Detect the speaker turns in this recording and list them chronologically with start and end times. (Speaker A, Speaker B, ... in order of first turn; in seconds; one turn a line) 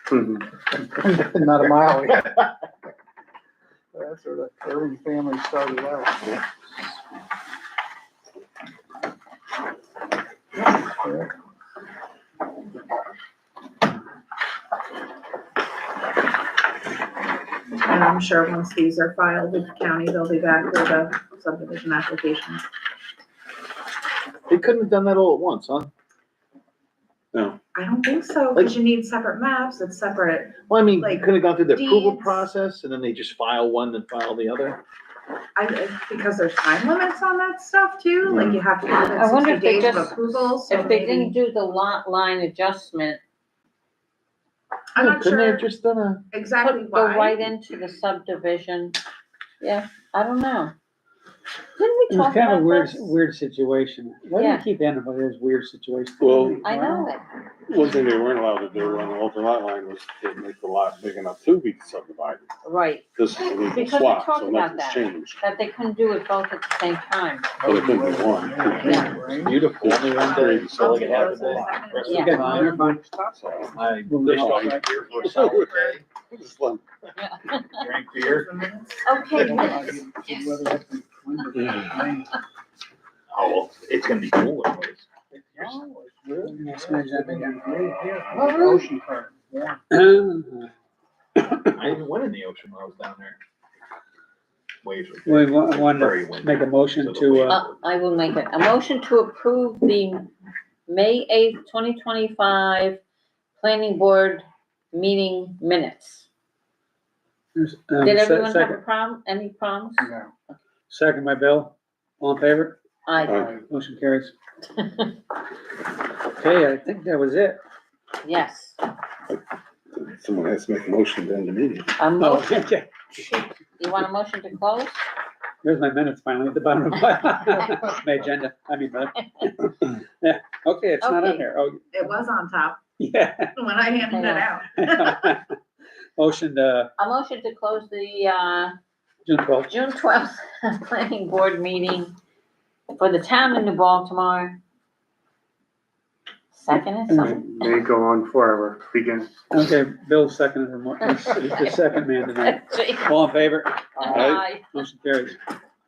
Speaker A: 0.1-0.4
Speaker B: 0.8-2.3
Speaker B: 3.9-6.3
Speaker B: 10.6-11.3
Speaker C: 17.8-22.6
Speaker D: 24.5-25.9
Speaker E: 27.3-27.6
Speaker C: 27.7-32.5
Speaker D: 30.7-34.8
Speaker C: 35.6-41.4
Speaker E: 38.3-38.6
Speaker D: 38.3-38.6
Speaker F: 38.9-43.2
Speaker C: 45.0-45.6
Speaker D: 45.0-46.2
Speaker C: 46.3-47.4
Speaker F: 46.6-49.0
Speaker F: 49.6-50.7
Speaker F: 51.8-53.1
Speaker G: 52.1-57.0
Speaker F: 54.4-54.7
Speaker E: 56.2-56.6
Speaker F: 56.6-57.2
Speaker E: 57.7-62.5
Speaker F: 62.6-67.6
Speaker E: 63.2-65.4
Speaker B: 67.6-69.6
Speaker E: 67.6-71.8
Speaker F: 68.8-69.1
Speaker D: 69.4-72.8
Speaker C: 70.1-73.0
Speaker F: 72.1-72.5
Speaker G: 72.1-73.0
Speaker B: 72.6-73.3
Speaker E: 73.4-76.8
Speaker D: 73.7-76.0
Speaker G: 74.0-74.8
Speaker C: 75.1-75.8
Speaker F: 77.2-77.8
Speaker D: 77.8-78.5
Speaker C: 78.1-79.5
Speaker F: 79.1-80.5
Speaker B: 79.3-82.3
Speaker E: 81.5-82.1
Speaker D: 83.3-85.8
Speaker B: 85.3-89.8
Speaker G: 86.5-87.8
Speaker G: 89.9-90.7
Speaker G: 91.4-91.7
Speaker D: 91.7-93.4
Speaker D: 94.8-97.8
Speaker G: 95.3-97.6
Speaker F: 97.5-100.3
Speaker F: 100.9-103.0
Speaker F: 103.6-106.3
Speaker G: 107.6-108.8
Speaker F: 108.0-110.5
Speaker B: 110.0-110.3
Speaker G: 110.9-112.8
Speaker F: 113.1-113.5
Speaker E: 113.2-113.6
Speaker G: 113.5-114.3
Speaker F: 114.8-115.2
Speaker G: 116.4-117.6
Speaker F: 118.2-118.8
Speaker E: 119.9-121.9
Speaker F: 122.0-122.6
Speaker G: 122.2-123.0
Speaker F: 123.2-125.0
Speaker G: 125.6-131.8
Speaker F: 131.0-131.4
Speaker C: 131.9-132.8
Speaker G: 133.0-133.5
Speaker C: 133.6-135.3
Speaker F: 134.1-134.5
Speaker G: 134.8-135.6
Speaker G: 136.2-136.9
Speaker F: 137.0-138.8
Speaker G: 139.3-139.7
Speaker F: 139.7-142.2
Speaker F: 142.9-144.6
Speaker F: 146.5-147.5
Speaker G: 147.1-147.4
Speaker A: 147.2-149.3
Speaker G: 149.5-155.4
Speaker F: 151.0-153.4
Speaker F: 153.9-154.7
Speaker E: 154.1-154.4